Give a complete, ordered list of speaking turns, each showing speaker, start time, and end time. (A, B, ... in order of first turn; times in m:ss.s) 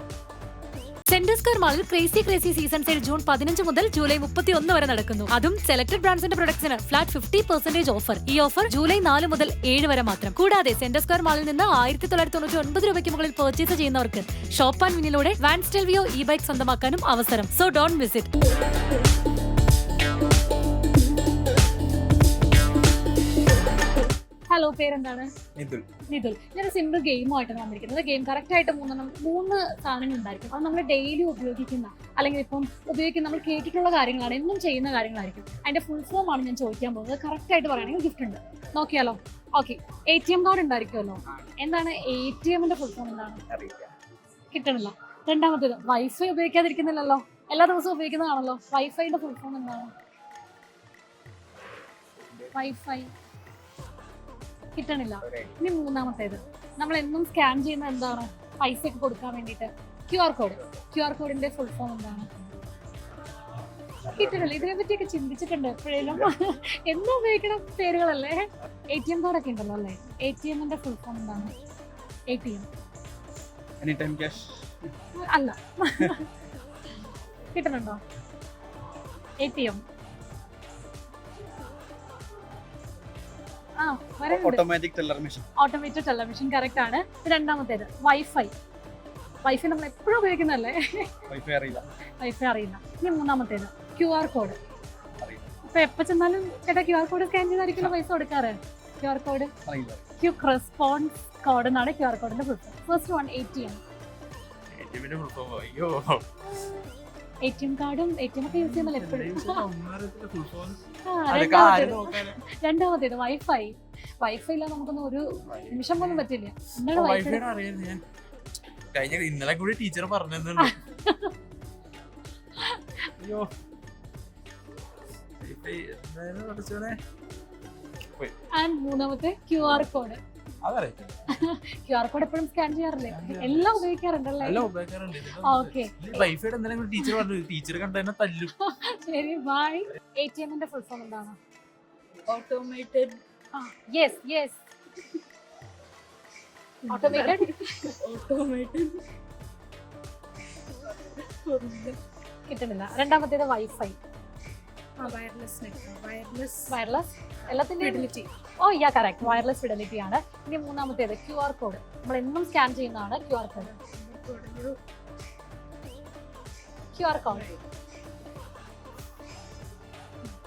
0:01.1-0:18.3 A
0:24.5-0:25.3 B
0:25.6-0:25.8 C
0:26.1-0:43.4 B
0:43.5-0:43.9 D
0:44.5-0:49.9 B
0:52.5-0:53.1 B
0:54.7-1:02.3 B
0:55.2-0:55.5 D
1:04.0-1:04.6 D
1:04.2-1:11.5 B
1:12.3-1:12.7 B
1:13.8-1:14.6 D
1:15.2-1:16.2 B
1:17.5-1:18.0 B
1:19.4-1:19.8 B
1:23.8-1:24.6 B
1:24.3-1:25.1 D
1:25.6-1:28.5 B
1:29.4-1:31.1 B
1:32.2-1:34.6 B
1:35.7-1:39.5 B
1:40.2-1:43.8 B
1:44.7-1:46.2 C
1:47.4-1:49.6 B
1:48.5-1:52.4 C
1:51.0-1:57.4 B
1:55.5-1:56.2 C
1:56.9-1:58.0 C
1:58.9-2:00.8 C
2:00.6-2:01.3 B
2:03.2-2:03.5 C
2:05.4-2:07.0 C
2:08.5-2:10.2 B
2:10.6-2:11.2 C
2:11.3-2:14.7 B
2:13.1-2:13.8 C
2:14.4-2:18.5 C
2:15.4-2:16.2 B
2:18.6-2:21.4 B
2:22.3-2:23.2 E
2:23.5-2:24.6 B
2:26.8-2:29.0 E
2:26.9-2:27.6 B
2:31.0-2:32.0 E
2:32.5-2:34.0 B
2:35.0-2:36.7 E
2:36.7-2:43.7 B
2:37.8-2:38.3 E
2:43.6-2:44.8 E
2:46.9-2:47.5 B
2:47.3-2:47.6 E